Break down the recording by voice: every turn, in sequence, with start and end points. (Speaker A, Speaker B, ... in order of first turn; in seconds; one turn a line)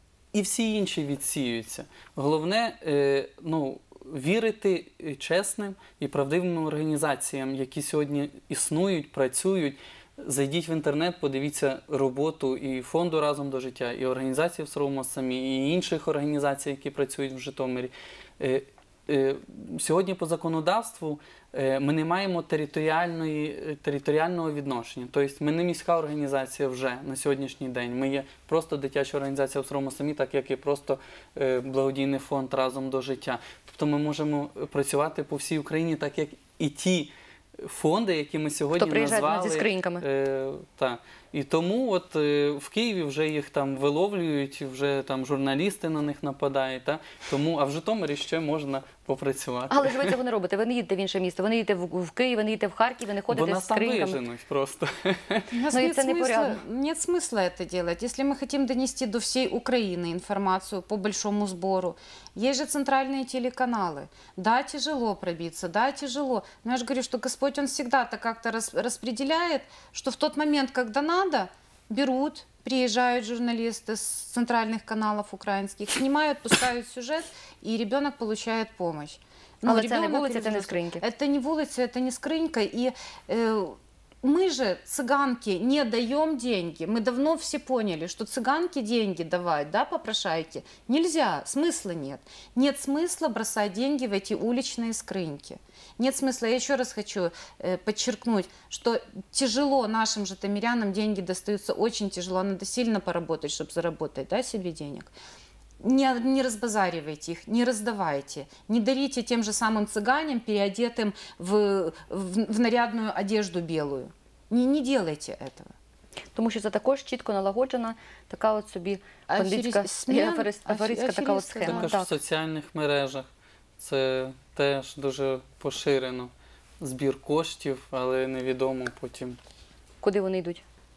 Speaker A: 0.3-50.1
Speaker B: 38.7-40.0
Speaker B: 49.7-54.2
Speaker A: 53.3-55.5
Speaker C: 55.5-105.1
Speaker B: 55.7-56.6
Speaker B: 79.7-81.0
Speaker C: 105.8-115.7
Speaker B: 116.3-122.1
Speaker C: 119.3-121.9
Speaker A: 121.7-123.2
Speaker A: 123.8-129.4
Speaker B: 130.0-130.6